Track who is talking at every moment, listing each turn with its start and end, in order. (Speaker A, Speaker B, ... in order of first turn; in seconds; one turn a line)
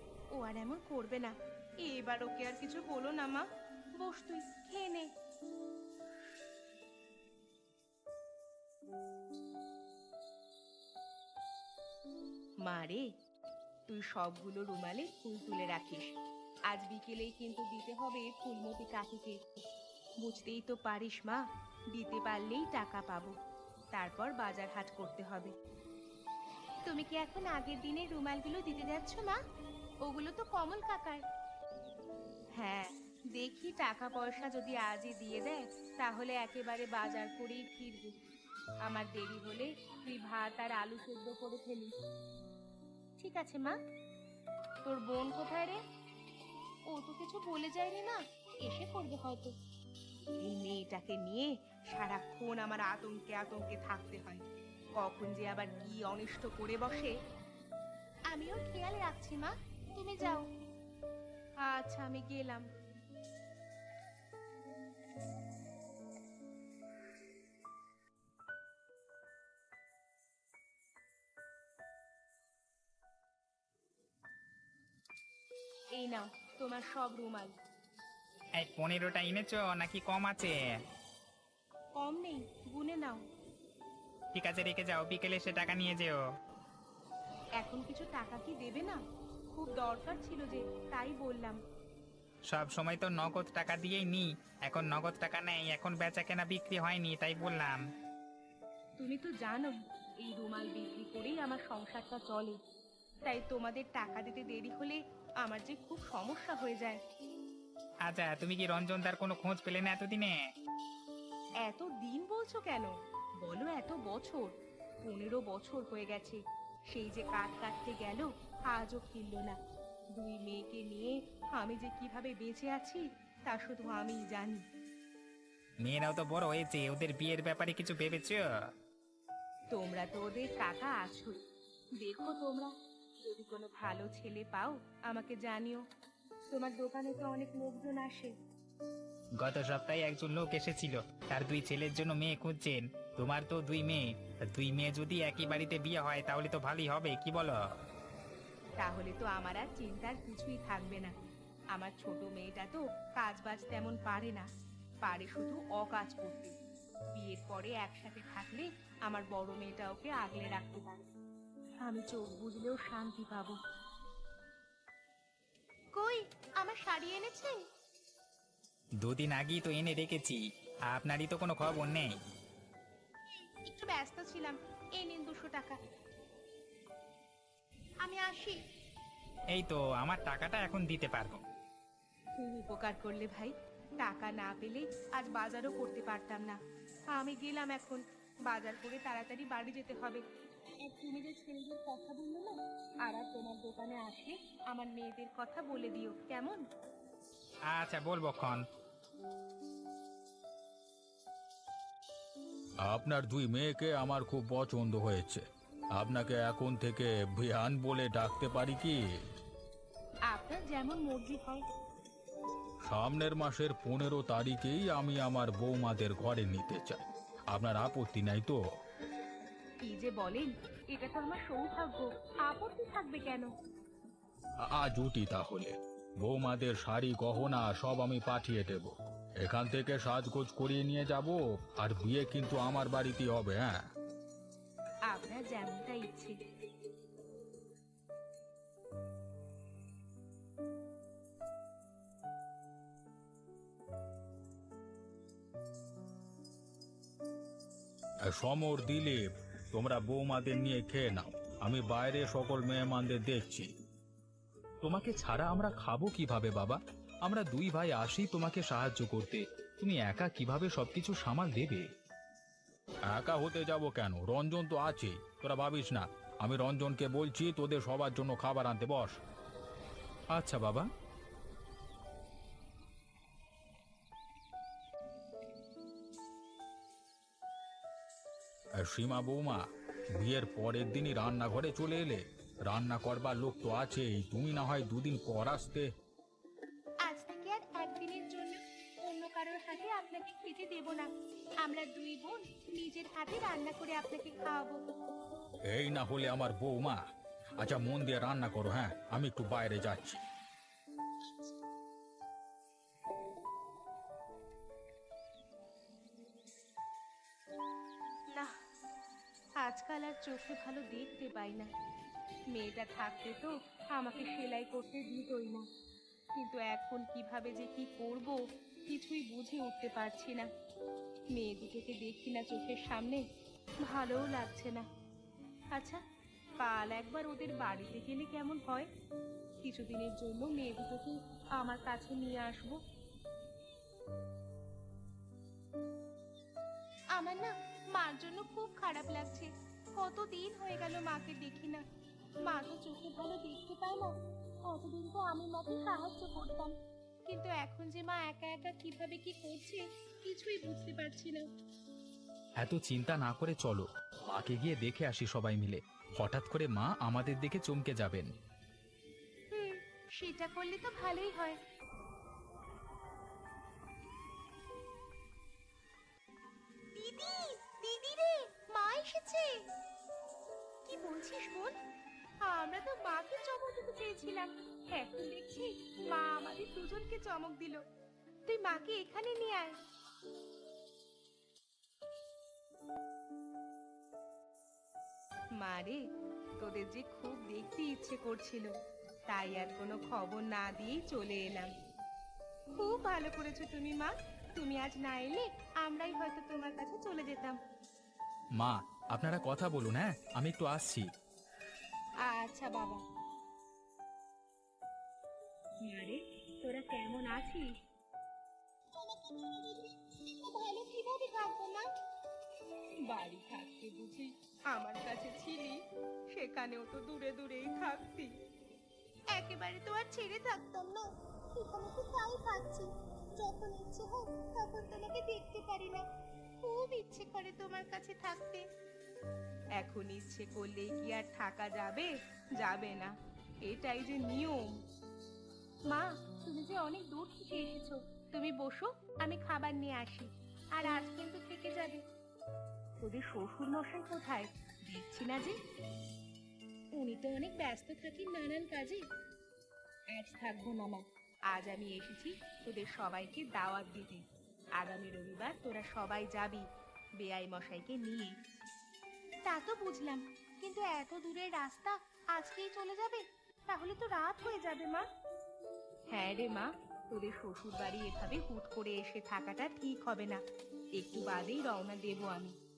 Speaker A: 0.3-3.5
Speaker A: 4.0-5.1
Speaker A: 12.7-13.1
Speaker A: 13.9-16.1
Speaker A: 16.7-19.4
Speaker A: 20.2-23.4
Speaker A: 23.9-25.5
Speaker A: 26.9-29.4
Speaker A: 30.0-31.2
Speaker A: 32.6-38.2
Speaker A: 38.9-41.9
Speaker A: 43.2-43.8
Speaker A: 44.9-45.8
Speaker A: 46.9-49.5
Speaker A: 50.4-54.4
Speaker A: 55.0-57.1
Speaker A: 58.3-60.5
Speaker A: 61.6-62.7
Speaker A: 76.0-77.5
Speaker B: 78.6-80.8
Speaker A: 82.0-83.2
Speaker B: 84.3-86.2
Speaker A: 87.6-89.0
Speaker A: 89.5-91.6
Speaker B: 92.5-97.8
Speaker A: 99.0-102.6
Speaker A: 103.2-107.0
Speaker B: 108.0-110.4
Speaker A: 111.6-119.6
Speaker A: 120.1-124.7
Speaker B: 125.8-128.5
Speaker A: 129.7-131.4
Speaker A: 132.0-135.8
Speaker A: 136.5-138.3
Speaker B: 139.4-147.6
Speaker A: 148.8-151.2
Speaker A: 151.7-154.5
Speaker A: 155.0-156.6
Speaker A: 157.1-161.0
Speaker A: 161.8-163.6
Speaker A: 166.0-167.6
Speaker B: 169.0-172.2
Speaker A: 173.4-175.8
Speaker A: 178.0-178.6
Speaker B: 179.5-181.4
Speaker A: 182.4-186.6
Speaker A: 187.1-190.2
Speaker A: 190.8-196.6
Speaker B: 197.7-198.6
Speaker C: 202.8-205.4
Speaker C: 206.0-209.2
Speaker A: 210.3-211.7
Speaker C: 212.9-218.6
Speaker A: 219.8-223.5
Speaker C: 224.6-233.8
Speaker A: 235.1-236.4
Speaker C: 248.3-253.7
Speaker C: 254.8-261.9
Speaker C: 263.1-269.2
Speaker C: 270.3-270.9
Speaker C: 278.8-279.6
Speaker C: 280.1-285.9
Speaker A: 287.1-291.1
Speaker A: 291.6-294.8
Speaker C: 295.7-297.0
Speaker C: 297.6-300.2
Speaker A: 309.6-311.7
Speaker A: 312.5-315.7
Speaker A: 316.3-320.5
Speaker A: 321.3-323.2
Speaker A: 323.8-324.9
Speaker A: 325.7-326.0
Speaker A: 326.6-328.9
Speaker A: 329.6-332.8
Speaker A: 337.1-341.9
Speaker A: 342.4-346.8
Speaker A: 347.3-351.5
Speaker C: 352.6-358.3
Speaker A: 359.5-361.6
Speaker A: 366.9-369.6
Speaker A: 370.9-371.8
Speaker A: 372.4-377.8
Speaker A: 378.5-379.8
Speaker A: 385.6-386.0
Speaker A: 386.6-388.8
Speaker A: 389.3-391.7
Speaker A: 392.7-397.6
Speaker C: 398.6-401.1
Speaker A: 402.2-403.0
Speaker A: 405.8-407.7
Speaker A: 409.0-411.9
Speaker A: 413.1-415.8
Speaker A: 416.3-418.3
Speaker A: 419.3-426.1
Speaker A: 426.6-428.6
Speaker A: 429.8-433.1
Speaker A: 433.6-434.7
Speaker A: 435.9-442.0
Speaker A: 443.0-445.6
Speaker A: 446.9-449.0
Speaker A: 450.1-454.2
Speaker A: 454.8-456.7
Speaker A: 457.2-458.4
Speaker A: 459.5-465.1
Speaker A: 466.1-470.4
Speaker A: 471.0-472.6